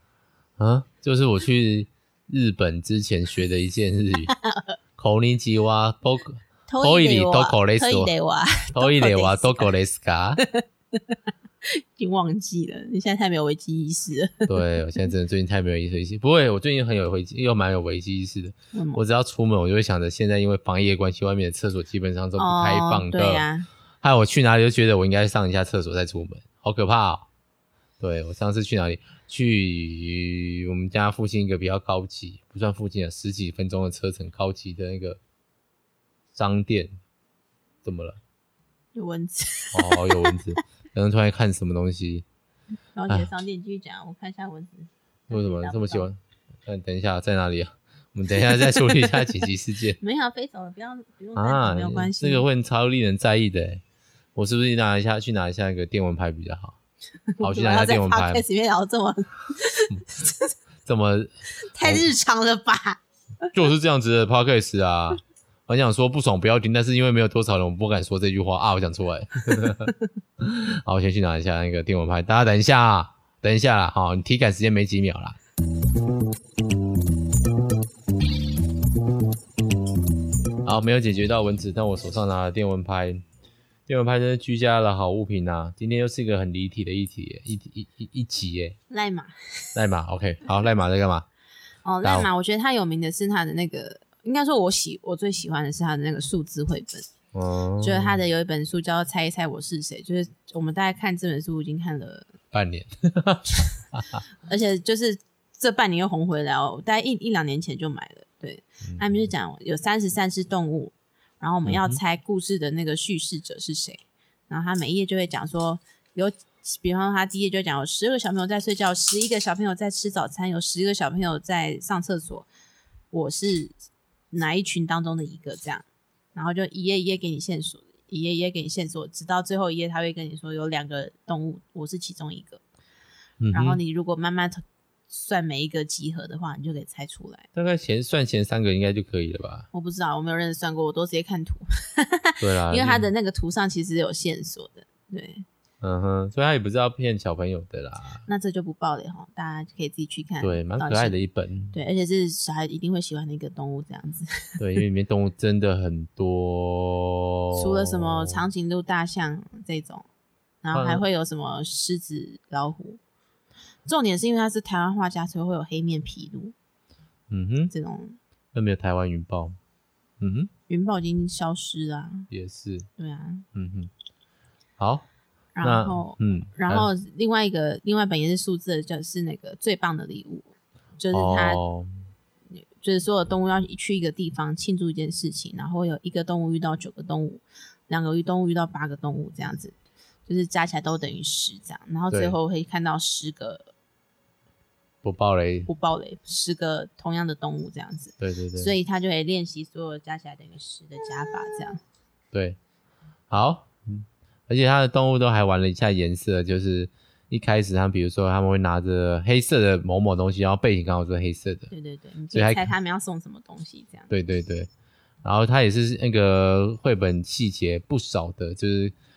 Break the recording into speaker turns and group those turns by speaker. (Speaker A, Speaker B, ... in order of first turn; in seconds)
Speaker A: 0.6-4.3, 5.0-8.1, 8.7-10.4, 14.5-23.5, 24.0-27.3, 28.0-35.2, 36.3-36.9, 37.8-38.2, 39.7-42.2, 45.3-50.0, 51.4-53.8, 54.4-56.8, 57.4-58.4, 60.8-62.1, 63.5-75.4, 80.6-83.2, 83.9-88.8, 89.7-91.3, 92.0-92.3, 97.3-98.2, 102.5-104.2, 108.8-109.1, 111.7-112.0, 133.4-133.8, 137.5-139.7, 142.4-143.1, 145.8-148.2, 150.4-151.8, 154.6-158.4, 160.7-161.0, 167.3-167.7, 168.5-169.6, 170.2-170.5, 172.3-172.9, 173.5-173.9, 174.8-175.1, 175.6-176.9, 181.1-181.9, 192.1-192.3, 195.0-195.7, 198.2-198.7, 202.3-202.6, 203.3-211.7, 212.3-212.7, 214.1-214.7, 215.2-218.9
Speaker B: 4.3-4.8, 6.7-9.7, 10.4-14.5, 18.7-19.0, 22.4-23.7, 38.9-40.4, 42.9-46.1, 48.4-49.3, 50.0-52.5, 57.3-60.5, 61.7-63.0, 88.9-89.7, 91.8-97.1, 97.8-102.3, 104.4-122.5, 123.1-123.8, 124.3-132.6, 133.5-137.4, 139.7-145.4, 148.3-151.2, 151.7-154.6, 157.5-160.1, 160.6-163.0, 163.8-166.5, 167.7-168.2, 170.7-172.3, 173.0-173.4, 175.5-181.6, 182.5-189.7, 190.3-193.7, 195.7-201.8, 211.7-214.1